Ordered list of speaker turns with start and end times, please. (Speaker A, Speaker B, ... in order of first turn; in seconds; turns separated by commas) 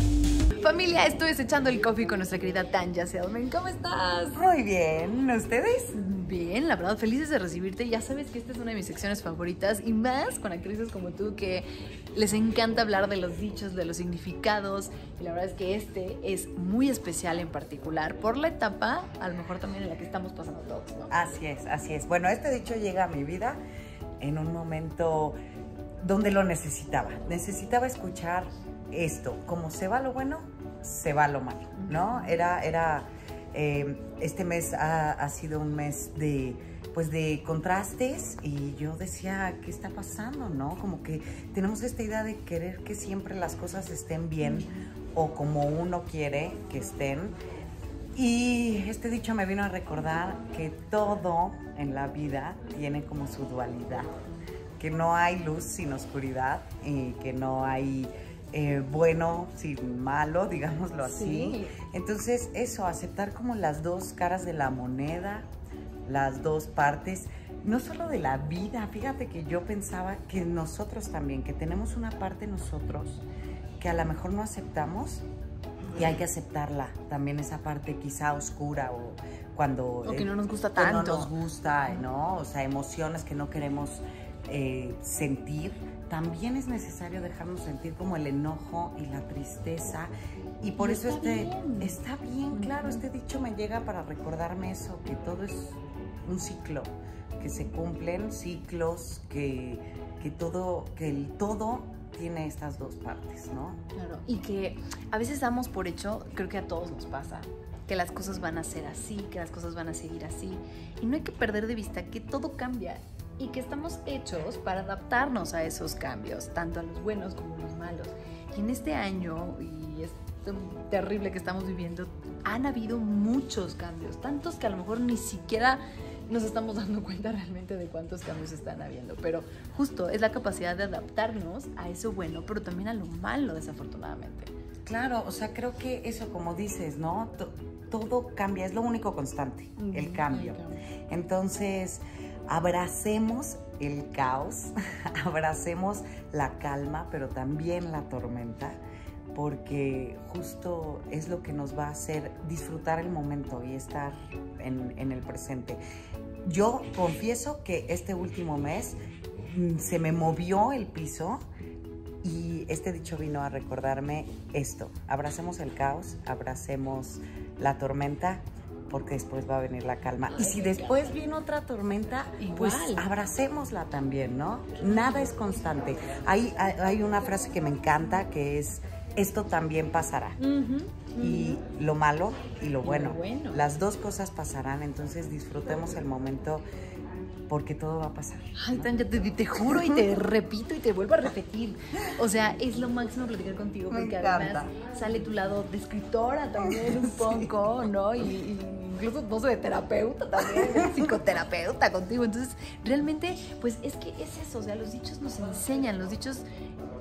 Speaker A: 0.5-4.4, Speaker B: 4.3-5.9, Speaker A: 5.9-21.1, Speaker B: 21.1-23.6, Speaker B: 24.2-25.4, Speaker B: 26.0-47.3, Speaker A: 31.8-32.3, Speaker A: 44.4-44.8, Speaker B: 48.1-54.1, Speaker B: 54.8-65.5, Speaker A: 61.0-61.7, Speaker B: 66.0-73.2, Speaker B: 73.8-75.2, Speaker B: 75.9-103.8, Speaker A: 80.0-81.3, Speaker A: 90.8-92.0, Speaker A: 92.5-93.0, Speaker A: 103.9-134.5, Speaker B: 134.8-148.8, Speaker A: 139.8-140.8, Speaker B: 149.3-155.8, Speaker B: 156.4-161.4, Speaker B: 162.2-180.4, Speaker A: 170.3-171.0, Speaker A: 172.4-173.1, Speaker A: 180.4-181.6, Speaker B: 181.2-186.7, Speaker A: 182.8-183.7, Speaker B: 187.5-188.9, Speaker A: 188.6-206.4, Speaker B: 189.6-190.0, Speaker B: 193.9-194.7, Speaker B: 196.6-197.6, Speaker B: 200.5-201.0